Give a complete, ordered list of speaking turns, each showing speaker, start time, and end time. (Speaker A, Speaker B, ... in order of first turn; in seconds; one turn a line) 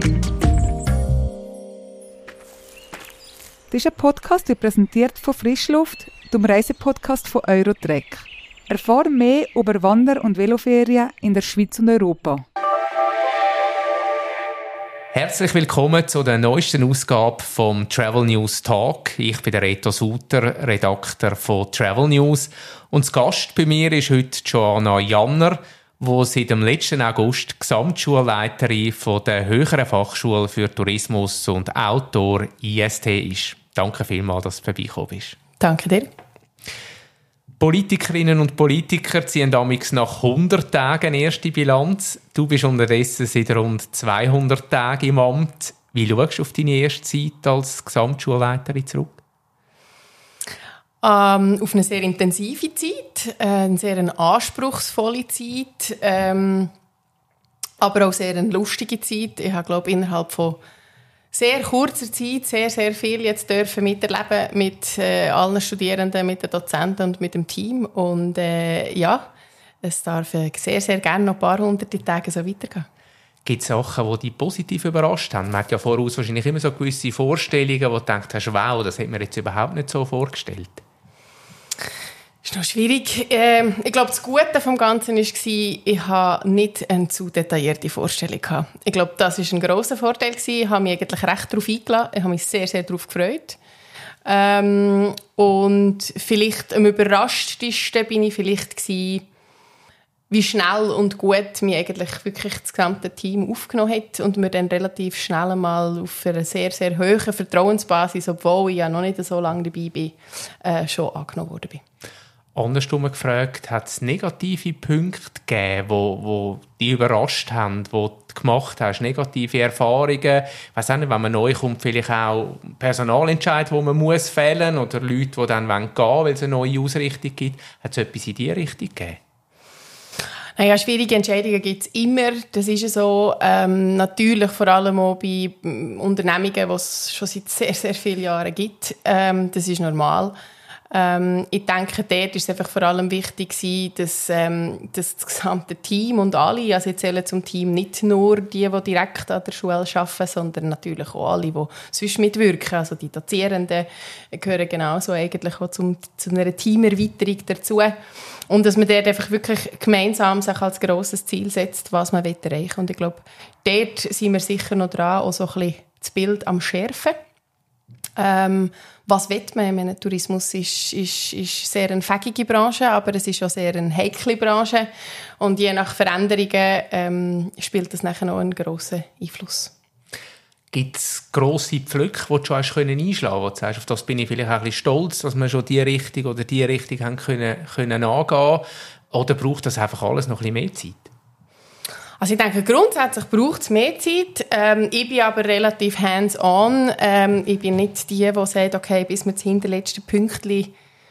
Speaker A: 3.7-12.4
Speaker B: 15.1-35.4
Speaker C: 35.6-36.1
Speaker B: 37.6-49.2
Speaker C: 51.0-56.7
Speaker C: 57.8-60.6
Speaker C: 61.3-69.2
Speaker C: 69.8-72.9
Speaker B: 73.4-80.8
Speaker C: 82.4-93.6
Speaker C: 94.2-99.2
Speaker C: 100.3-111.8
Speaker B: 112.5-129.2
Speaker C: 130.6-140.3
Speaker C: 140.9-157.9
Speaker C: 158.5-167.2
Speaker C: 168.2-174.9
Speaker C: 175.4-179.7
Speaker B: 180.7-191.1
Speaker C: 192.2-200.7